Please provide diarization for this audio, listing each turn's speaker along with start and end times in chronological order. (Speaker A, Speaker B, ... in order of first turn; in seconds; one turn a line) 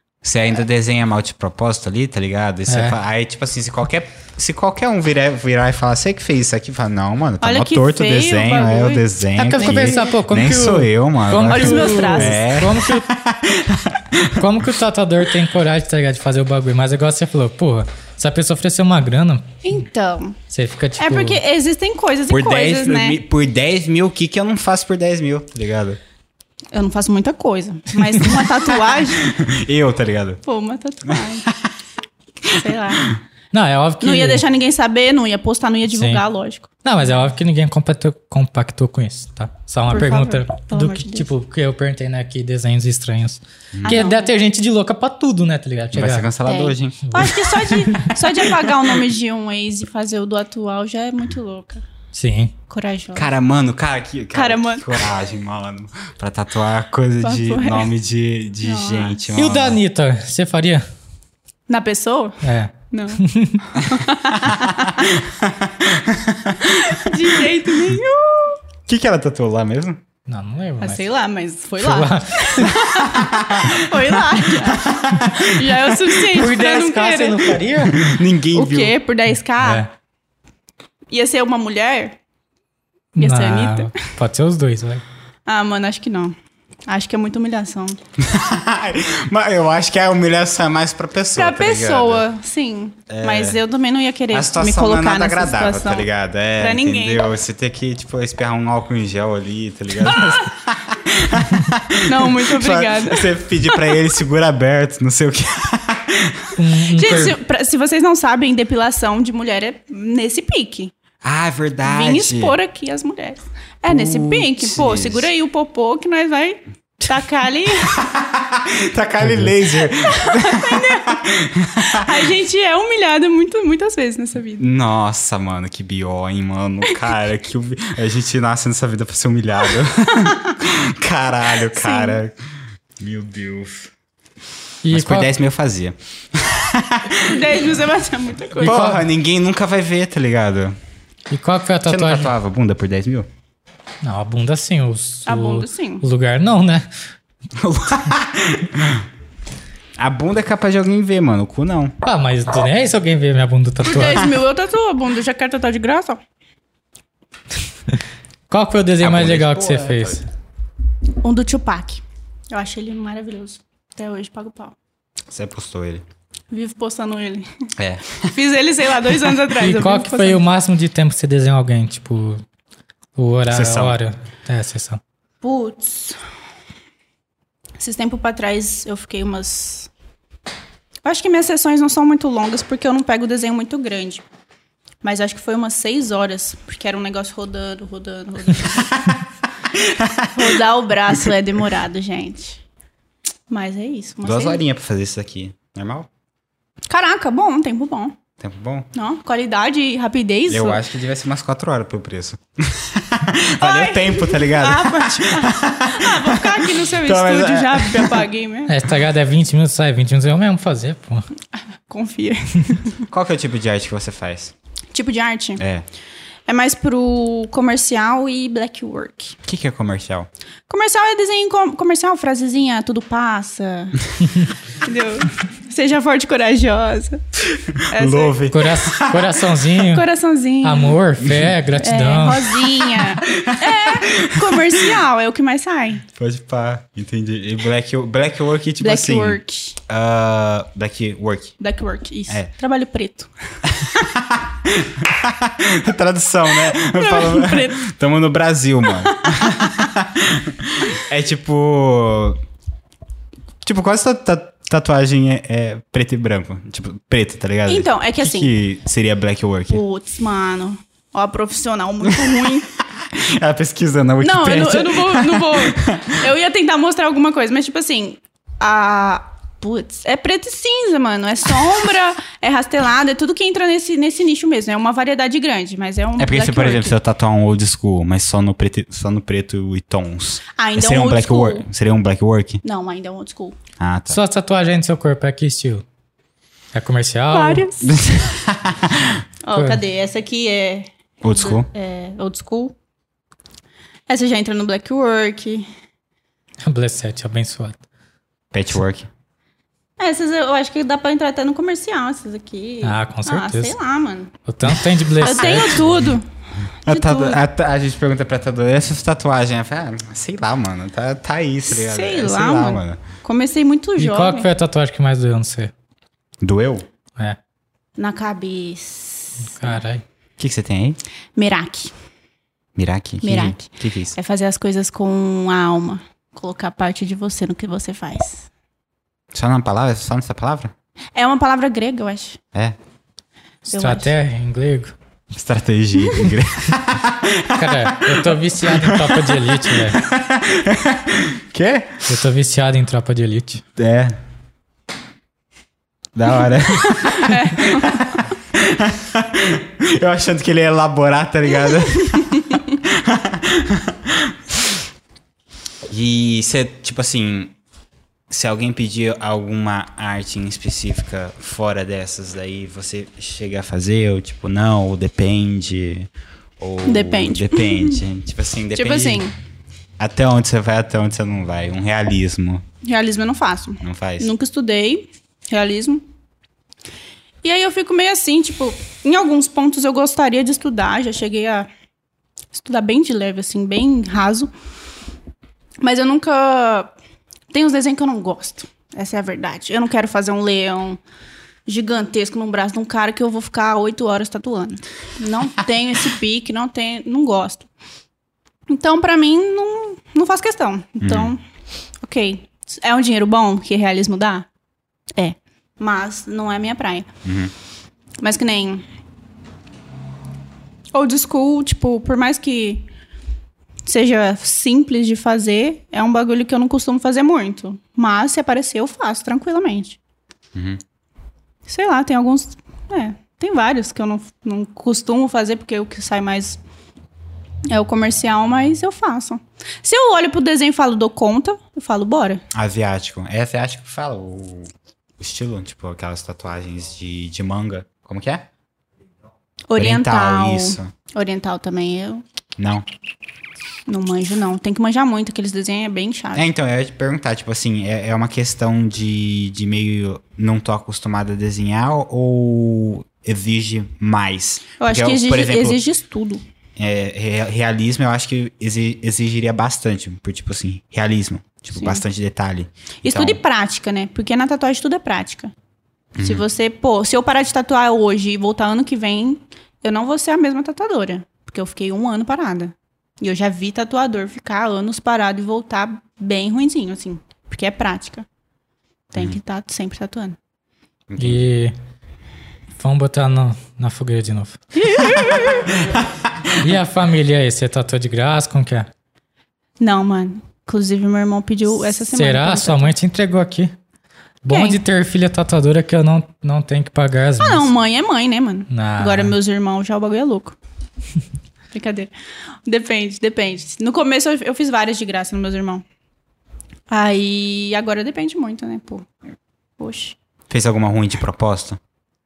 Speaker A: 0.2-14.5
Speaker B: 2.7-3.0
Speaker C: 7.4-10.1
Speaker B: 9.3-13.1
Speaker C: 11.5-12.4
Speaker B: 14.3-19.6
Speaker C: 19.6-20.4
Speaker B: 20.5-21.4
Speaker C: 21.0-23.2
Speaker A: 22.3-26.0
Speaker C: 26.7-29.3
Speaker A: 29.2-30.4
Speaker C: 30.4-31.5
Speaker A: 31.1-31.7
Speaker C: 32.5-33.0
Speaker B: 33.5-34.4
Speaker C: 34.0-36.7
Speaker B: 35.9-36.2
Speaker B: 36.8-46.3
Speaker C: 39.9-41.3
Speaker A: 43.7-44.1
Speaker C: 43.8-44.3
Speaker A: 45.9-47.4
Speaker C: 46.4-51.8
Speaker B: 47.0-48.1
Speaker B: 52.1-52.5
Speaker C: 52.7-53.3
Speaker A: 53.1-59.8
Speaker C: 54.3-55.0
Speaker C: 57.2-57.9
Speaker C: 58.6-59.3
Speaker B: 59.3-60.9
Speaker C: 61.7-65.1
Speaker B: 62.4-63.7
Speaker A: 64.4-67.3
Speaker C: 66.7-68.6
Speaker A: 68.9-70.0
Speaker B: 70.3-71.0
Speaker C: 70.8-77.6
Speaker B: 71.8-72.8
Speaker A: 72.9-74.1
Speaker A: 74.6-75.9
Speaker B: 76.3-78.1
Speaker A: 77.8-79.0
Speaker C: 78.5-79.8
Speaker B: 79.6-79.9
Speaker C: 81.1-82.2
Speaker B: 83.2-85.0
Speaker C: 83.2-84.0
Speaker C: 85.5-86.3
Speaker C: 86.9-88.0
Speaker A: 88.2-92.2
Speaker C: 91.3-96.1
Speaker A: 93.1-93.6
Speaker A: 94.3-106.5
Speaker C: 96.6-97.2
Speaker C: 102.0-104.0
Speaker B: 106.5-107.3
Speaker C: 106.9-110.9
Speaker A: 111.2-112.5
Speaker C: 111.8-117.9
Speaker A: 113.9-115.3
Speaker A: 117.9-122.3
Speaker B: 119.2-119.5
Speaker C: 120.0-121.2
Speaker C: 121.8-124.7
Speaker A: 124.6-132.3
Speaker C: 130.2-130.5
Speaker C: 131.7-132.2
Speaker A: 133.0-133.9
Speaker B: 134.8-135.3
Speaker A: 134.9-137.4
Speaker C: 137.2-138.9
Speaker B: 138.6-139.0
Speaker A: 138.6-140.8
Speaker B: 141.3-142.3
Speaker A: 141.8-143.3
Speaker B: 144.0-146.9
Speaker C: 145.2-146.0
Speaker A: 147.6-149.0
Speaker A: 150.0-151.9
Speaker B: 152.0-154.3
Speaker C: 153.8-156.2
Speaker B: 158.5-160.2
Speaker A: 159.0-160.2
Speaker C: 161.2-164.7
Speaker A: 165.3-166.0
Speaker C: 166.5-167.5
Speaker A: 167.8-168.3
Speaker C: 168.3-170.4
Speaker B: 169.5-172.4
Speaker B: 173.2-175.0
Speaker A: 173.5-174.0
Speaker C: 175.4-176.2
Speaker C: 177.8-179.9
Speaker C: 181.0-184.2
Speaker C: 185.0-189.0
Speaker A: 189.7-190.6
Speaker C: 190.3-192.6
Speaker C: 193.5-194.6
Speaker A: 194.2-196.1
Speaker C: 196.9-198.2
Speaker A: 198.4-198.9
Speaker C: 198.9-200.8
Speaker A: 200.5-208.3
Speaker C: 203.6-208.7
Speaker B: 208.7-211.2
Speaker C: 211.9-213.0
Speaker A: 213.1-214.5
Speaker C: 214.9-215.6
Speaker A: 215.6-215.8
Speaker C: 216.5-219.4
Speaker A: 219.4-220.3
Speaker C: 220.7-224.1
Speaker C: 224.8-227.2
Speaker A: 227.5-229.2
Speaker C: 227.9-228.5
Speaker B: 228.5-230.1
Speaker C: 229.8-231.0
Speaker B: 230.6-232.5
Speaker C: 231.8-236.0
Speaker A: 233.0-234.9
Speaker A: 236.1-241.5
Speaker C: 238.8-239.8
Speaker C: 241.6-243.3
Speaker A: 243.7-252.4
Speaker C: 246.6-247.8
Speaker C: 248.9-249.6
Speaker A: 253.6-259.8
Speaker C: 257.7-258.5
Speaker C: 259.7-262.7
Speaker A: 262.1-262.3
Speaker A: 262.9-266.2
Speaker C: 264.2-276.9
Speaker A: 276.2-282.6
Speaker C: 280.6-281.6
Speaker C: 282.6-283.6
Speaker A: 283.8-284.2
Speaker B: 284.1-285.8
Speaker B: 286.7-287.6
Speaker C: 287.3-287.9
Speaker A: 287.8-289.2
Speaker C: 289.4-292.7
Speaker B: 289.5-289.8
Speaker A: 291.2-291.7
Speaker C: 294.1-295.7
Speaker B: 296.6-297.8
Speaker A: 298.5-299.1
Speaker C: 300.0-304.3
Speaker B: 302.8-303.7
Speaker B: 304.4-305.9
Speaker C: 305.2-306.2
Speaker A: 305.7-306.1
Speaker C: 306.8-307.4
Speaker A: 306.9-313.0
Speaker C: 311.7-314.5
Speaker B: 314.0-315.7
Speaker A: 316.4-316.9
Speaker C: 318.0-319.7
Speaker B: 319.4-320.0
Speaker A: 320.4-321.0
Speaker C: 321.4-321.9
Speaker A: 322.8-324.1
Speaker C: 323.2-328.5
Speaker A: 329.3-330.7
Speaker C: 331.1-332.4
Speaker B: 333.7-334.9
Speaker C: 333.7-334.1
Speaker A: 335.3-342.1
Speaker B: 337.5-340.0
Speaker B: 342.1-343.6
Speaker A: 343.8-344.2
Speaker A: 346.1-354.8
Speaker C: 346.9-347.9
Speaker A: 355.9-357.6
Speaker A: 358.3-369.2
Speaker C: 366.9-368.0
Speaker C: 368.8-369.3
Speaker A: 370.0-372.6
Speaker C: 372.8-376.0
Speaker A: 373.8-374.3
Speaker C: 377.4-381.7
Speaker C: 382.5-384.5
Speaker C: 385.8-386.9
Speaker C: 387.5-391.0
Speaker C: 391.7-397.7
Speaker C: 398.7-401.4
Speaker A: 401.0-401.3
Speaker C: 402.0-404.5
Speaker C: 405.1-407.1
Speaker A: 407.2-407.5
Speaker C: 408.2-408.8
Speaker C: 410.9-412.9
Speaker C: 413.9-420.0
Speaker A: 420.5-420.8
Speaker C: 421.7-426.6
Speaker C: 427.7-432.4
Speaker A: 432.5-438.5
Speaker C: 439.7-442.2
Speaker A: 439.8-440.9
Speaker A: 442.6-442.9
Speaker C: 443.9-446.5
Speaker A: 446.3-455.8
Speaker C: 454.8-456.4
Speaker A: 456.8-463.4
Speaker C: 461.7-462.0
Speaker C: 463.0-465.5
Speaker A: 466.1-466.4
Speaker C: 466.2-478.2
Speaker C: 479.1-480.4
Speaker A: 481.1-481.4
Speaker B: 481.2-481.7
Speaker B: 482.8-484.6
Speaker C: 484.7-485.7
Speaker A: 485.8-486.5
Speaker B: 486.6-488.9
Speaker C: 489.8-492.9
Speaker B: 492.1-493.7
Speaker B: 494.4-497.7
Speaker C: 494.5-494.8
Speaker C: 497.4-500.6
Speaker B: 498.7-499.3
Speaker C: 501.7-502.1
Speaker C: 502.6-505.8
Speaker C: 506.9-509.1
Speaker C: 509.8-510.1
Speaker A: 510.5-511.8